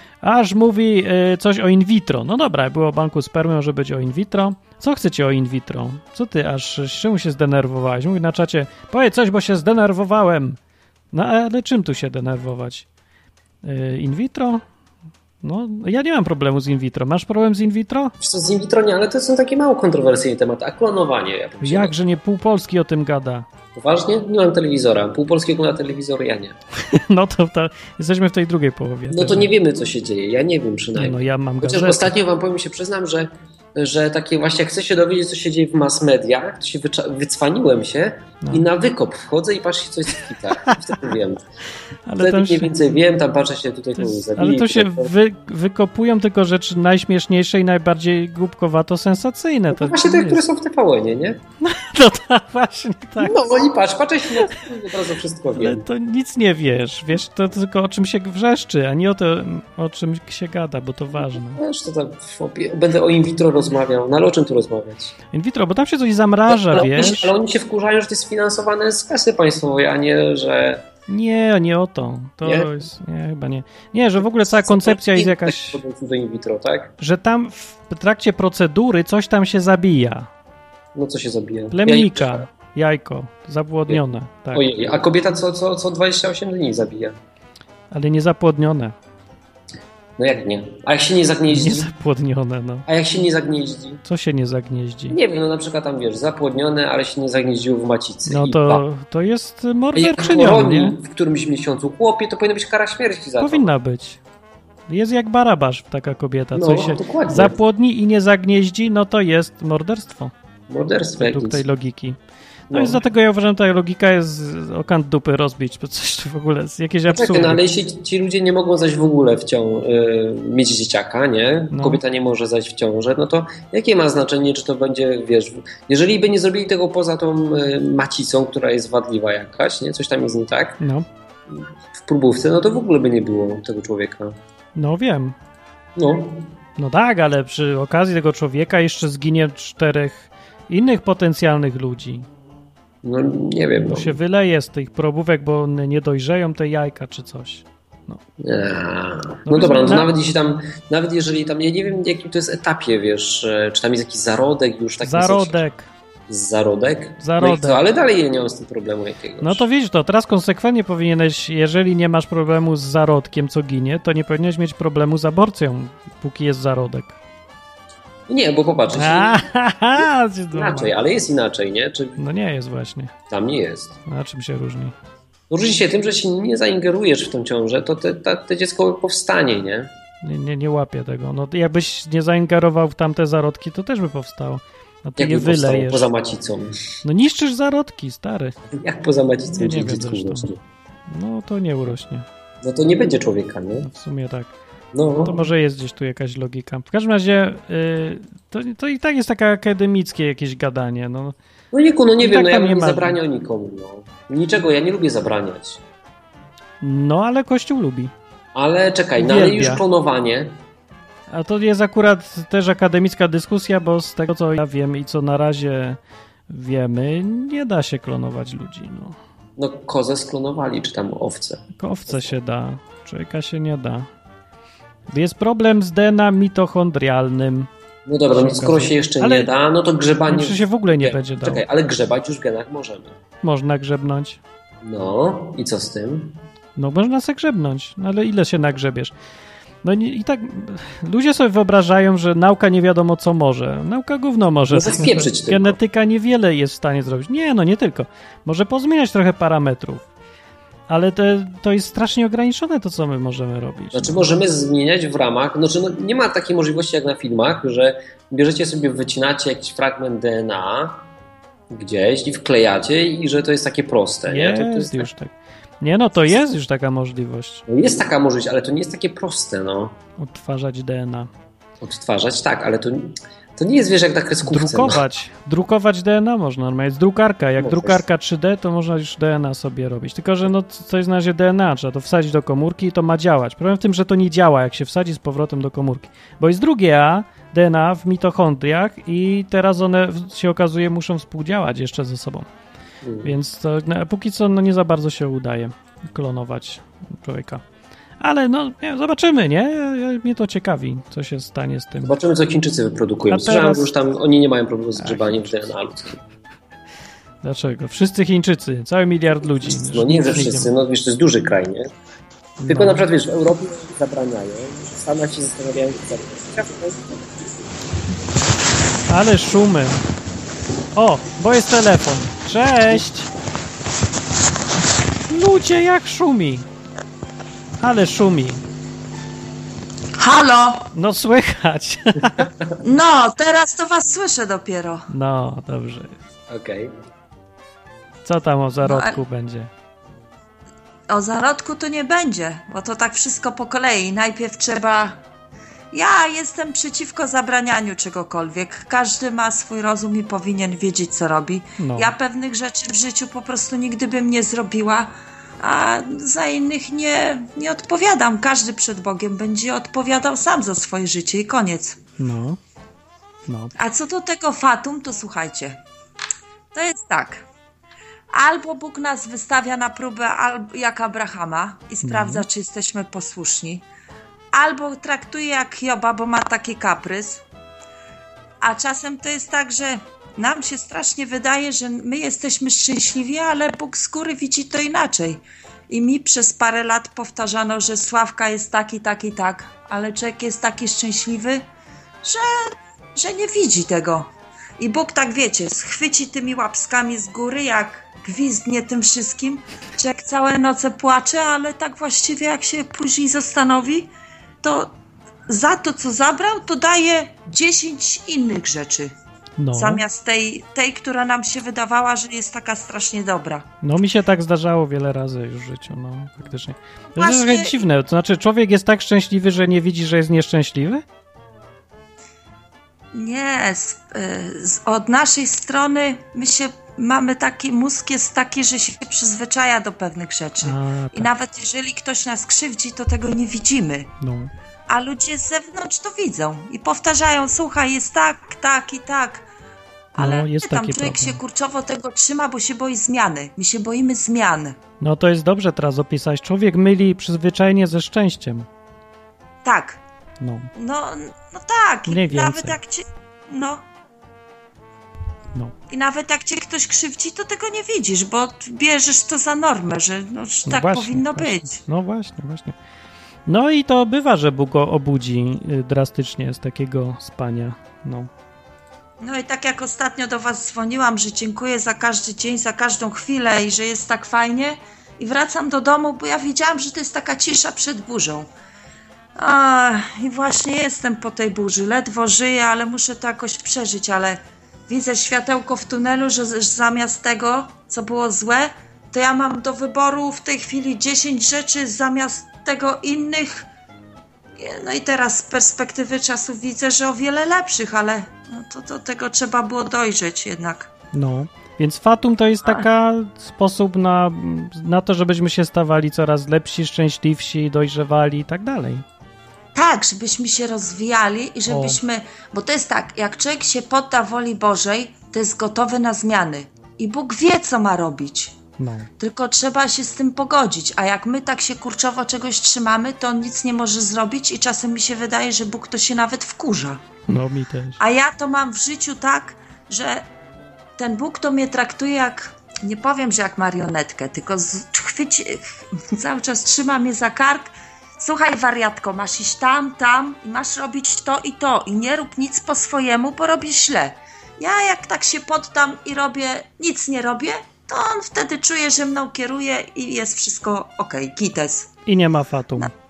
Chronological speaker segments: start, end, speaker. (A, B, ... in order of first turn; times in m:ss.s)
0:00.2-0:10.6 A
0:11.1-0:12.9 A
0:13.6-0:14.6 A
0:15.4-0:18.1 A
0:18.2-0:22.0 B
0:21.6-0:23.5 A
0:23.8-0:26.6 B
0:26.8-0:29.5 A
0:29.1-0:41.4 B
0:31.0-0:32.1 A
0:40.6-0:40.9 A
0:42.1-0:42.8 A
0:42.2-0:45.1 B
0:44.0-0:50.4 A
0:49.7-0:51.4 B
0:51.6-0:53.5 A
0:53.2-0:55.9 B
0:54.4-0:54.6 A
0:55.5-1:01.6 A
1:01.1-1:05.1 B
1:05.3-1:07.3 A
1:06.5-1:10.9 B
1:11.1-1:15.8 A
1:12.4-1:12.8 B
1:14.2-1:16.9 B
1:17.0-1:20.3 A
1:21.0-1:22.5 B
1:21.7-1:24.8 A
1:23.9-1:27.2 B
1:27.9-1:29.0 A
1:30.2-1:31.9 B
1:31.5-1:32.9 A
1:32.9-1:34.0 B
1:34.0-1:35.2 A
1:35.1-1:38.8 B
1:38.3-1:41.0 A
1:39.9-1:43.7 B
1:43.4-1:44.2 A
1:44.9-1:50.3 A
1:46.6-1:47.6 B
1:50.7-1:51.6 B
1:51.2-1:52.2 A
1:52.7-1:53.0 B
1:52.7-1:57.6 A
1:57.1-2:10.8 B
2:01.7-2:02.0 A
2:10.8-2:11.1 A
2:11.5-2:14.4 B
2:14.8-2:15.4 A
2:16.0-2:16.5 B
2:16.8-2:22.3 A
2:23.0-2:24.2 B
2:23.9-2:28.2 A
2:28.4-2:35.7 B
2:29.5-2:30.1 A
2:35.0-2:35.9 A
2:36.3-2:39.6 B
2:37.2-2:37.8 A
2:39.4-2:47.2 A
2:48.3-2:49.5 B
2:48.9-2:50.9 A
2:50.0-2:52.2 B
2:52.2-2:53.1 A
2:53.3-2:54.0 B
2:54.1-2:54.9 A
2:55.5-2:59.9 B
3:00.2-3:06.1 A
3:05.2-3:06.8 B
3:07.0-3:08.6 A
3:08.7-3:10.6 B
3:09.6-3:10.5 A
3:11.1-3:12.3 A
3:12.6-3:13.9 B
3:13.8-3:14.5 A
3:14.9-3:15.5 B
3:15.2-3:21.4 A
3:21.7-3:25.8 B
3:22.2-3:23.2 A
3:26.8-3:28.1 A
3:28.5-3:30.6 B
3:29.2-3:29.8 A
3:31.3-3:36.0 A
3:36.5-3:39.2 A
3:39.6-3:42.3 B
3:41.8-3:44.1 A
3:45.1-3:47.7 A
3:48.1-3:53.2 B
3:48.3-3:49.5 A
3:50.3-3:51.6 A
3:53.4-3:54.4 A
3:54.8-3:56.4 B
3:56.8-3:59.1 A
3:59.8-4:10.0 A
4:04.7-4:05.8 B
4:10.9-4:14.2 A
4:13.9-4:21.0 B
4:21.7-4:25.1 B
4:24.3-4:27.6 A
4:27.7-4:30.0 B
4:30.2-4:31.3 A
4:31.8-4:35.0 B
4:34.5-4:52.5 A
4:37.6-4:38.0 B
4:53.0-4:53.3 B
4:53.2-4:57.6 A
4:58.2-5:02.2 A
5:02.0-5:06.2 B
5:03.3-5:03.9 A
5:05.0-5:05.7 A
5:07.4-5:10.7 A
5:09.6-5:11.9 B
5:12.6-5:13.1 A
5:12.7-5:17.3 B
5:19.1-5:20.0 A
5:21.0-5:23.3 A
5:25.3-5:26.7 A
5:27.8-5:28.6 A
5:30.2-5:30.9 C
5:30.9-5:32.5 A
5:32.8-5:35.1 C
5:35.1-5:36.2 A
5:36.5-5:36.9 B
5:38.2-5:39.7 A
5:38.8-5:39.2 C
5:41.1-5:45.2 C
5:45.9-6:02.0 C
5:51.8-5:52.2 A
6:02.2-6:02.6 A
6:03.5-6:03.7 A
6:03.8-6:05.8 C
6:06.7-6:07.4 C
6:08.3-6:13.8 C
6:12.0-6:12.5 A
6:14.5-6:17.4 C
6:18.6-6:31.6 C
6:32.2-6:34.3 C
6:34.8-6:44.1 C
6:44.6-6:44.9 C
6:45.5-6:49.1 C
6:49.6-6:50.0 A
6:49.7-6:53.7 C
6:53.8-7:01.0 A
6:57.2-6:57.8 C
7:03.1-7:14.1 C
7:10.6-7:11.3 A
7:14.2-7:14.5 A
7:14.9-7:19.5 C
7:20.1-7:24.8 C
7:20.2-7:21.4 A
7:25.0-7:28.7 A
7:29.6-7:30.0 C
7:30.4-7:30.7 A
7:30.8-7:33.8 C
7:32.1-7:32.8 A
7:35.9-7:41.8 C
7:40.7-7:42.8 A
7:43.5-7:48.3 A
7:49.2-7:58.5 C
7:59.4-8:13.7 C
8:14.6-8:20.9 C
8:21.1-8:29.0 A
8:29.8-8:38.6 C
8:31.7-8:32.0 A
8:38.8-8:39.1 A
8:39.2-8:47.0 C
8:47.3-8:48.0 A
8:48.0-8:50.2 C
8:51.0-9:11.9 C
9:12.1-9:12.9 A